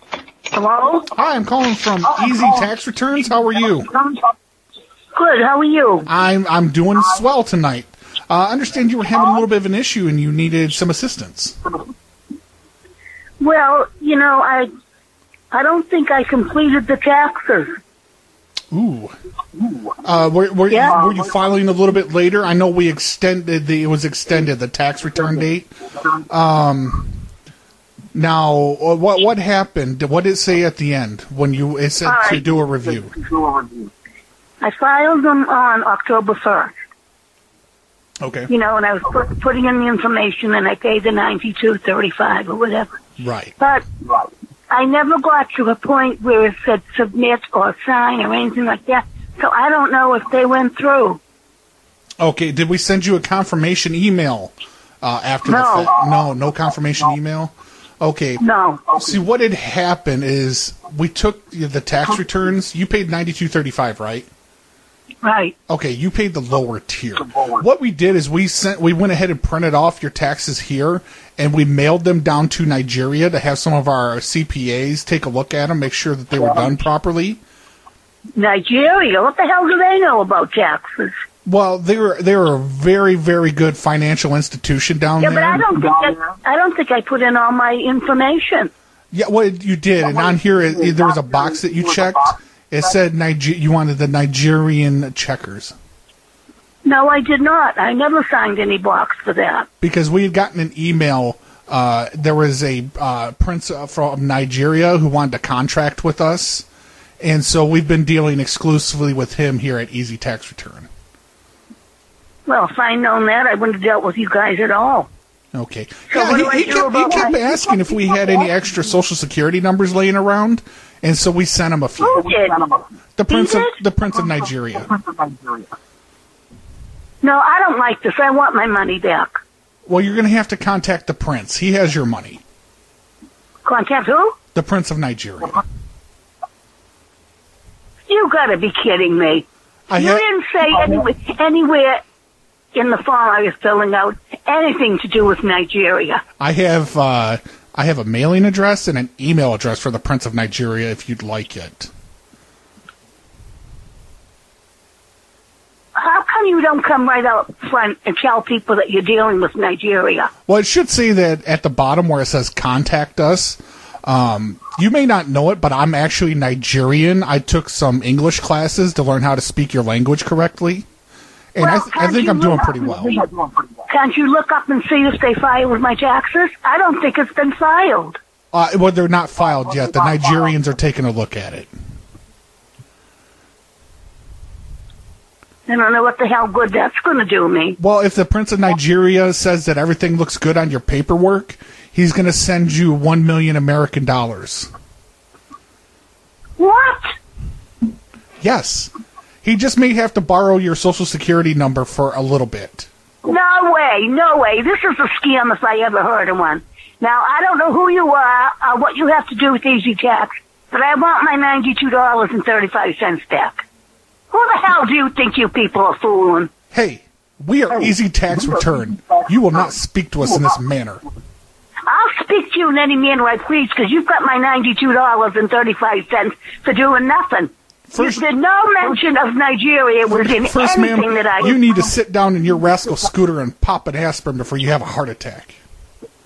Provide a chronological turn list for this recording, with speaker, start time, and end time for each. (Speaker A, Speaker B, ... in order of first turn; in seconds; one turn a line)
Speaker A: 0.5-1.1
Speaker B: 1.1-3.9
Speaker A: 5.1-6.1
Speaker B: 6.1-11.6
Speaker A: 13.4-14.7
Speaker A: 15.5-17.7
Speaker B: 18.7-19.1
Speaker B: 20.0-27.1
Speaker A: 20.7-21.0
Speaker B: 28.1-33.2
Speaker A: 32.0-32.4
Speaker A: 34.6-36.7
Speaker B: 38.2-38.5
Speaker A: 38.5-42.9
Speaker B: 43.2-43.5
Speaker A: 43.6-43.8
Speaker A: 44.7-51.2
Speaker B: 52.2-64.3
Speaker A: 55.5-55.9
Speaker A: 58.4-58.8
Speaker A: 65.2-65.5
Speaker B: 65.7-77.4
Speaker A: 78.3-81.1
Speaker B: 81.4-85.7
Speaker A: 85.2-88.7
Speaker B: 89.1-95.7
Speaker A: 96.8-99.7
Speaker B: 99.8-106.7
Speaker B: 107.2-110.9
Speaker A: 112.5-115.1
Speaker B: 115.5-122.3
Speaker A: 116.1-117.4
Speaker A: 122.0-122.6
Speaker B: 123.2-124.9
Speaker A: 123.3-123.8
Speaker A: 127.2-129.4
Speaker B: 129.9-132.4
Speaker A: 133.6-134.3
Speaker B: 134.5-135.6
Speaker A: 138.1-142.0
Speaker B: 139.9-140.2
Speaker A: 142.7-146.2
Speaker B: 146.4-151.9
Speaker A: 155.9-160.3
Speaker B: 160.5-170.8
Speaker B: 171.5-173.2
Speaker A: 171.6-173.0
Speaker A: 173.9-178.2
Speaker B: 178.5-181.7
Speaker A: 185.7-187.8
Speaker B: 187.8-194.7
Speaker A: 196.6-197.1
Speaker B: 198.4-198.9
Speaker B: 199.4-202.9
Speaker A: 203.2-213.6
Speaker A: 214.3-216.5
Speaker B: 216.7-221.0
Speaker A: 221.9-231.6
Speaker B: 227.9-228.2
Speaker B: 230.1-235.6